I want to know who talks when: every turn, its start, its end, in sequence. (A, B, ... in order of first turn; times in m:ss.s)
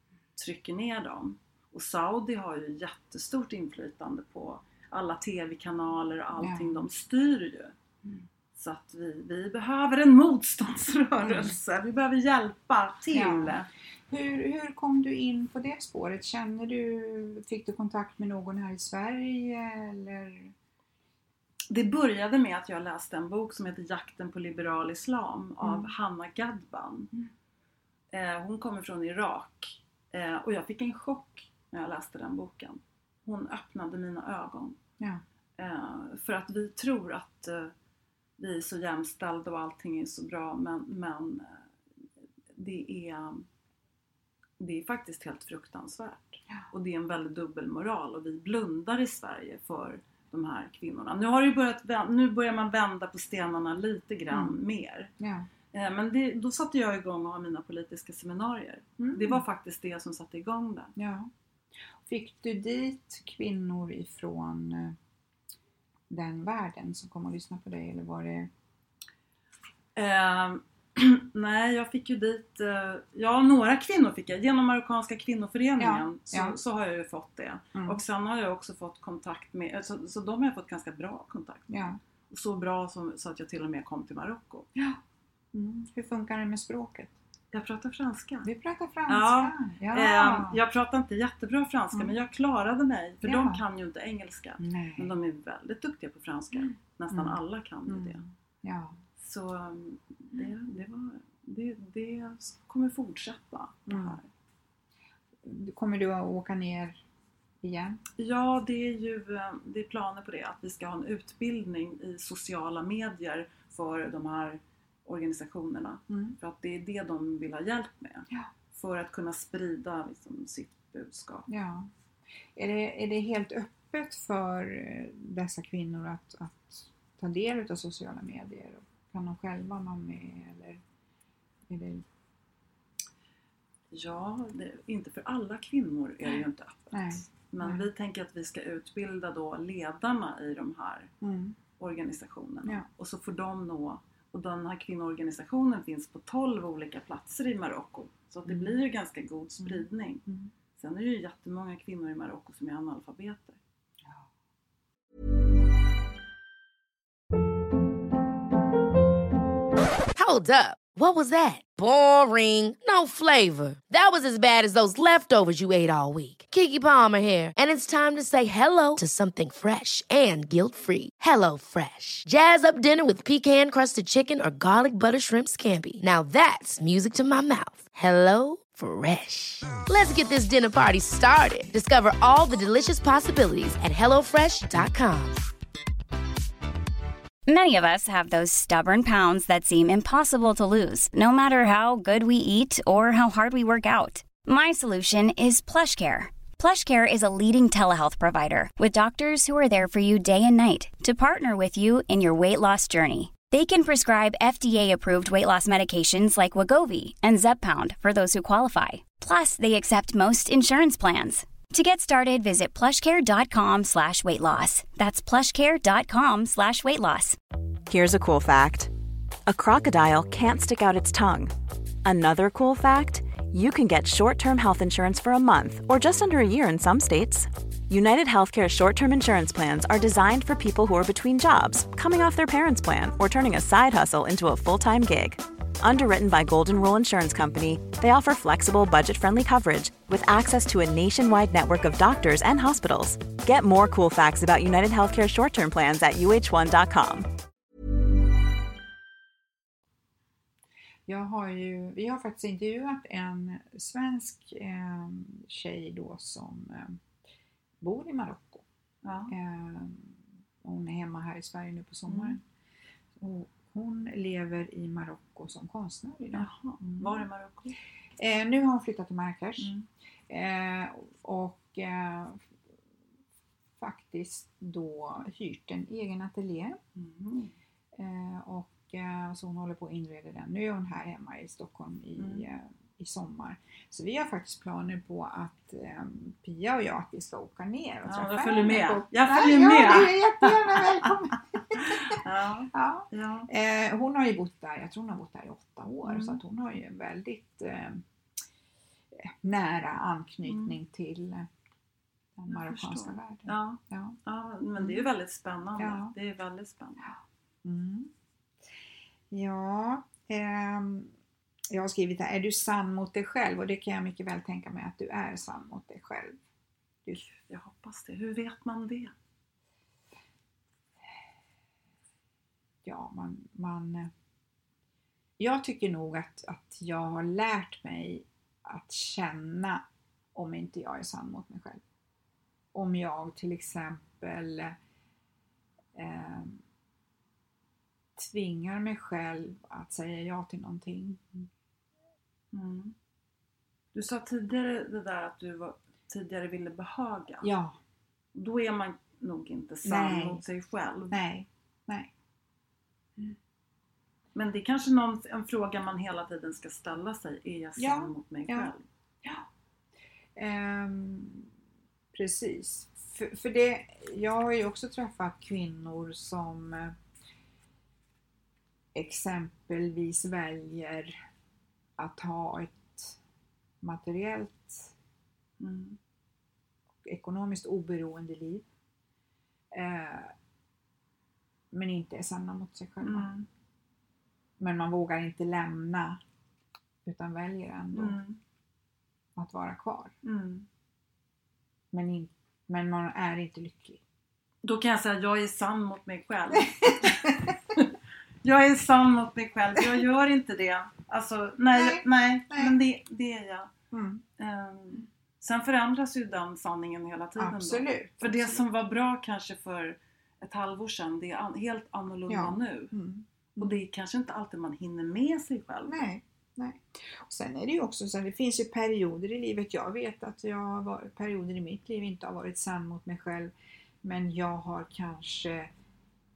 0:00.4-0:07.7 A
0:06.4-0:06.8 B
0:08.5-0:13.6 A
0:11.2-0:11.5 B
0:13.1-0:20.5 B
0:21.7-0:27.1 A
0:25.6-0:25.9 B
0:28.1-0:34.8 A
0:35.6-0:37.7 A
0:38.4-0:41.6 A
0:42.5-0:43.4 A
0:44.6-0:55.1 A
0:55.2-0:55.5 B
0:55.7-1:00.9 A
0:59.0-0:59.4 B
1:01.0-1:01.3 B
1:01.9-1:05.0 B
1:06.1-1:08.5 B
1:10.0-1:21.7 A
1:15.8-1:16.6 B
1:17.7-1:18.0 B
1:21.7-1:22.0 B
1:22.3-1:24.7 A
1:24.7-1:25.0 B
1:25.5-1:27.1 B
1:27.5-1:28.5 A
1:28.4-1:30.6 B
1:29.1-1:38.2 A
1:33.2-1:33.6 B
1:34.6-1:35.1 B
1:36.6-1:39.0 B
1:39.2-1:44.3 A
1:43.9-1:44.2 B
1:45.4-1:47.0 B
1:47.6-1:48.0 B
1:48.2-2:01.5 A
1:56.1-1:56.4 B
2:01.5-2:01.9 B
2:02.5-2:10.8 B
2:11.7-2:12.0 B
2:13.9-2:21.1 A
2:16.9-2:17.8 B
2:21.2-2:21.6 B
2:21.8-2:30.2 A
2:28.5-2:28.8 B
2:29.6-2:30.5 B
2:30.8-2:33.6 A
2:40.1-3:05.4 C
3:07.5-3:37.4 D
3:37.9-3:38.9 E
3:39.4-3:41.5 E
3:42.0-4:07.3 E
4:11.1-4:17.0 B
4:17.8-4:18.6 B
4:19.0-4:19.3 A
4:19.3-4:22.4 B
4:22.1-4:22.4 A
4:23.2-4:27.2 B
4:26.3-4:27.8 A
4:28.2-4:29.7 B
4:29.6-4:29.8 A
4:30.3-4:32.4 B
4:33.8-4:36.8 B
4:37.0-4:37.5 A
4:37.9-4:58.0 B
4:42.2-4:42.4 A
4:48.0-4:51.1 A
4:51.7-4:53.5 A
4:56.0-4:56.4 A
4:59.1-5:01.5 B
5:00.4-5:00.8 A
5:02.4-5:04.2 B
5:02.5-5:07.1 A
5:04.8-5:05.1 B
5:05.8-5:06.1 B
5:07.6-5:08.1 B
5:09.3-5:11.1 B
5:11.7-5:16.4 B
5:17.1-5:19.1 A
5:22.8-5:24.1 B
5:25.4-5:31.8 B
5:32.7-5:34.8 B
5:35.9-5:36.6 B
5:38.2-5:41.5 B
5:42.5-5:42.9 A
5:43.9-5:47.5 A
5:47.4-5:47.8 B
5:48.3-5:51.2 A
5:49.8-5:50.4 B
5:51.1-5:52.1 B
5:54.3-5:58.8 A
5:57.8-5:58.7 B
6:00.4-6:01.5 B
6:02.1-6:07.0 B
6:08.9-6:11.2 B
6:12.0-6:13.2 B
6:13.8-6:14.9 B
6:15.6-6:16.0 A
6:17.0-6:18.6 B
6:19.7-6:20.3 B
6:21.7-6:23.3 B
6:23.0-6:23.5 A
6:24.6-6:26.2 B
6:27.0-6:28.2 B
6:27.9-6:28.4 A
6:29.4-6:30.1 B
6:30.2-6:30.6 A
6:31.9-6:34.0 B
6:34.6-6:43.7 A
6:36.7-6:37.5 B
6:41.7-6:42.8 B
6:43.9-6:44.2 B
6:44.4-6:52.9 A
6:47.4-6:48.6 B
6:52.3-6:53.7 B
6:53.6-6:56.0 A
6:55.8-7:05.7 B